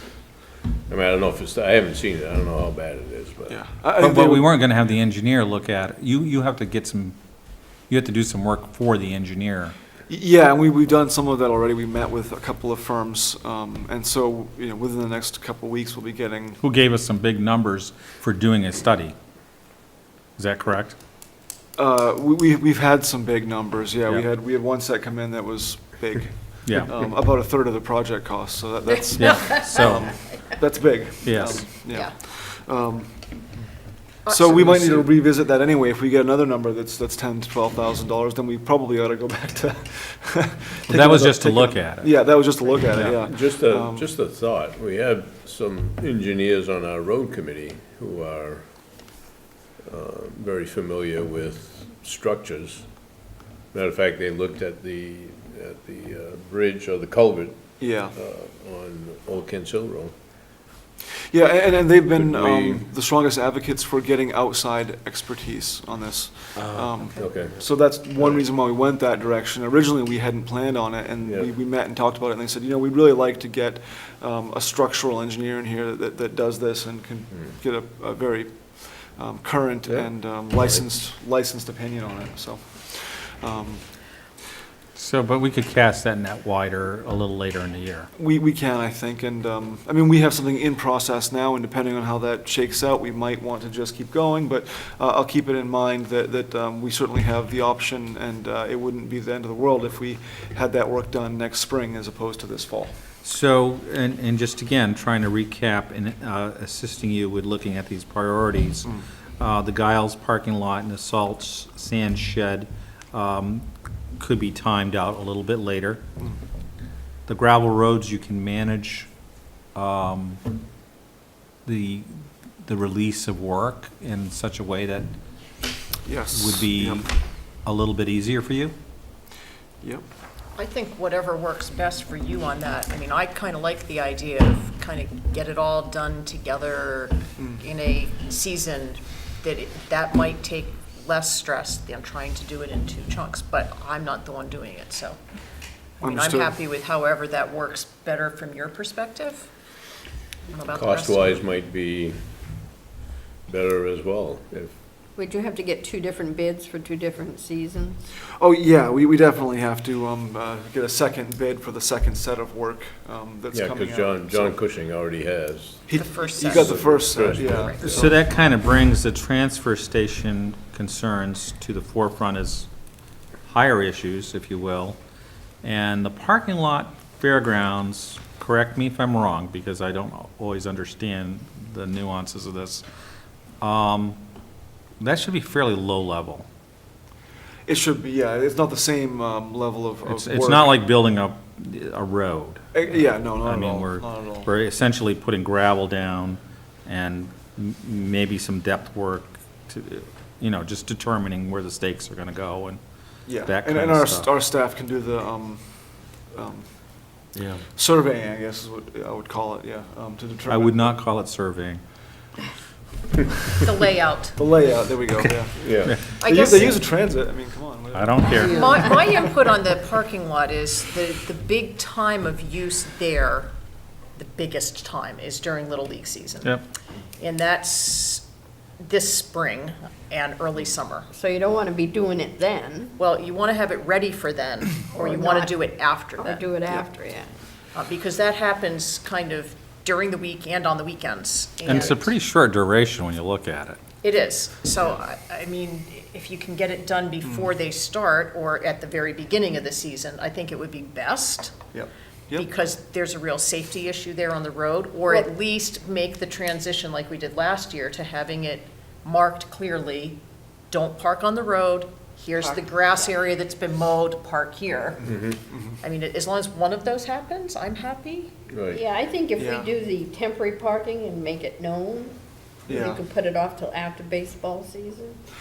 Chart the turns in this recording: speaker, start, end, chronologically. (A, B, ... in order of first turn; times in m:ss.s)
0:00.9-0:03.6 A
0:03.5-0:04.5 B
0:04.0-0:07.2 C
0:07.9-0:09.8 C
0:10.1-0:16.6 B
0:16.6-0:19.2 C
0:20.4-0:21.0 C
0:21.8-0:33.5 B
0:26.6-0:26.9 C
0:29.2-0:30.2 C
0:29.4-0:29.7 D
0:31.2-0:31.7 C
0:34.2-0:35.1 E
0:34.3-0:44.1 B
0:40.9-0:42.2 C
0:42.9-0:49.1 A
0:49.8-0:53.1 A
0:53.7-1:00.2 A
0:57.8-0:58.2 B
1:01.3-1:23.9 B
1:02.2-1:02.8 A
1:06.6-1:07.6 A
1:11.2-1:11.5 A
1:19.9-1:20.9 A
1:25.0-1:28.1 C
1:28.2-1:43.0 B
1:43.2-1:53.7 C
1:54.2-1:56.0 C
1:57.3-1:59.1 C
1:59.8-2:00.4 C
2:01.6-2:02.1 C
2:02.6-2:05.1 C
2:06.0-2:07.0 B
2:06.3-2:07.1 C
2:07.6-2:08.7 C
2:10.6-2:25.2 E
2:17.4-2:17.6 B
2:26.0-2:26.6 B
2:26.0-2:29.5 E
2:30.5-2:31.5 E
2:30.7-2:32.2 A
2:33.5-2:34.7 A
2:35.2-2:38.0 D
2:38.3-2:44.6 B
2:43.5-2:48.1 A
2:45.9-2:47.8 B
2:45.9-2:48.1 E
2:47.8-2:52.7 C
2:53.5-2:55.0 C
2:55.6-3:02.8 C
3:03.6-3:04.2 C
3:05.0-3:06.5 C
3:07.7-3:10.8 B
3:10.1-3:12.7 C
3:12.7-3:14.5 B
3:13.4-3:22.8 C
3:23.3-3:27.2 B
3:23.4-3:24.3 C
3:27.7-3:30.9 B
3:30.5-3:31.8 C
3:33.6-3:34.4 E
3:34.4-3:38.6 B
3:35.6-3:36.0 A
3:36.2-3:36.8 E
3:37.9-3:38.8 C
3:38.4-3:43.5 E
3:44.2-3:46.6 E
3:47.2-3:48.2 E
3:48.8-3:51.1 E
3:51.1-3:53.0 D
3:53.0-3:56.6 E
3:54.9-3:57.3 D
3:57.7-4:02.1 E
4:01.6-4:03.8 C
4:04.0-4:11.6 E
4:11.7-4:12.5 B
4:12.3-4:25.1 E
4:25.0-4:25.4 A
4:25.5-4:25.8 B
4:25.8-4:28.3 E
4:28.5-4:28.8 A
4:28.7-4:32.2 D
4:29.4-4:29.7 B
4:32.7-4:33.0 B
4:32.7-4:35.2 D